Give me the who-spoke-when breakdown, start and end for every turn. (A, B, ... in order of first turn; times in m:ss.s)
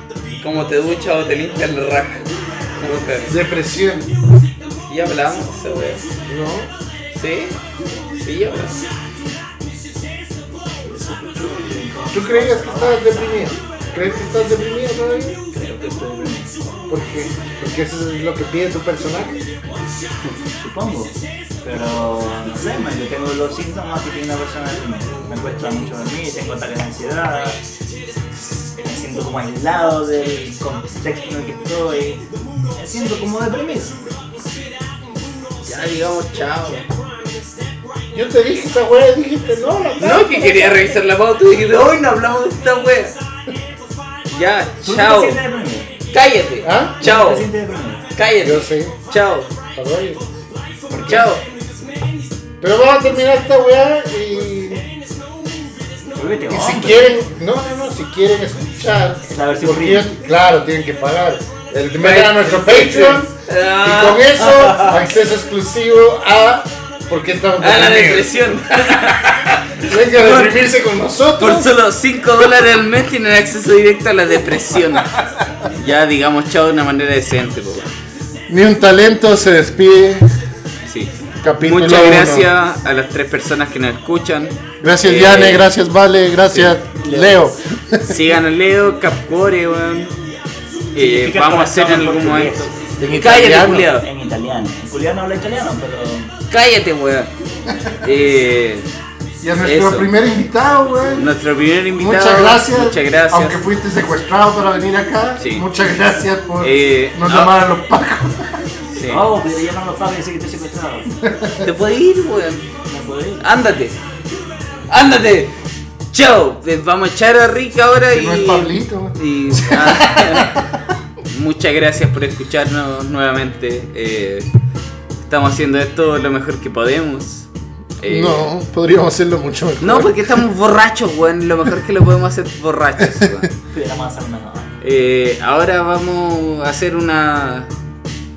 0:00.3-0:03.4 A
0:03.3-0:04.1 B
0:04.9-0:06.0 A
0:06.2-0:06.7 B
0:07.1-0:07.6 A
0:08.1-0:08.8 A
0:10.8-0:13.6 C
0:12.1-0:15.4 B
0:15.5-0:16.8 C
0:16.9-0:19.4 B
0:20.6-0:27.6 C
0:28.7-0:32.2 C
0:32.7-0:34.1 C
0:35.6-0:36.9 A
0:38.1-0:40.9 B
0:40.0-0:43.1 A
0:44.3-0:45.4 A
0:44.8-0:45.9 C
0:46.1-0:47.5 A
0:46.6-0:47.0 B
0:47.0-0:48.1 C
0:48.1-0:49.5 A
0:48.4-0:49.0 B
0:49.8-0:50.2 B
0:50.9-0:51.3 C
0:50.9-0:51.4 A
0:52.6-0:54.9 B
0:56.1-0:57.2 C
0:56.5-1:08.3 B
0:59.3-1:00.1 C
1:02.0-1:05.1 A
1:07.6-1:10.5 A
1:09.8-1:11.8 B
1:11.4-1:17.9 A
1:18.5-1:20.3 B
1:20.8-1:25.7 A
1:21.4-1:22.5 B
1:24.8-1:28.2 B
1:26.5-1:26.8 A
1:27.0-1:27.4 C
1:28.0-1:30.2 A
1:30.9-1:34.1 A
1:31.0-1:32.8 C
1:33.0-1:33.9 B
1:33.8-1:36.3 C
1:36.5-1:37.3 A
1:38.0-1:38.9 A
1:39.4-1:41.3 B
1:39.6-1:40.1 A
1:41.2-1:43.6 A
1:42.0-1:48.6 B
1:45.4-1:45.7 A
1:46.6-1:47.6 A
1:48.9-1:49.2 A
1:49.1-1:51.2 C
1:51.2-1:51.6 B
1:51.6-1:52.7 A
1:52.8-1:53.5 C
1:53.4-1:54.0 A
1:54.9-1:55.6 A
1:56.1-2:00.6 A
1:58.1-2:00.6 B
2:01.3-2:04.5 A
2:05.2-2:07.5 A
2:08.0-2:08.5 A
2:08.0-2:10.4 B
2:09.8-2:13.5 A
2:13.0-2:13.5 B
2:13.7-2:14.8 C
2:14.8-2:17.7 A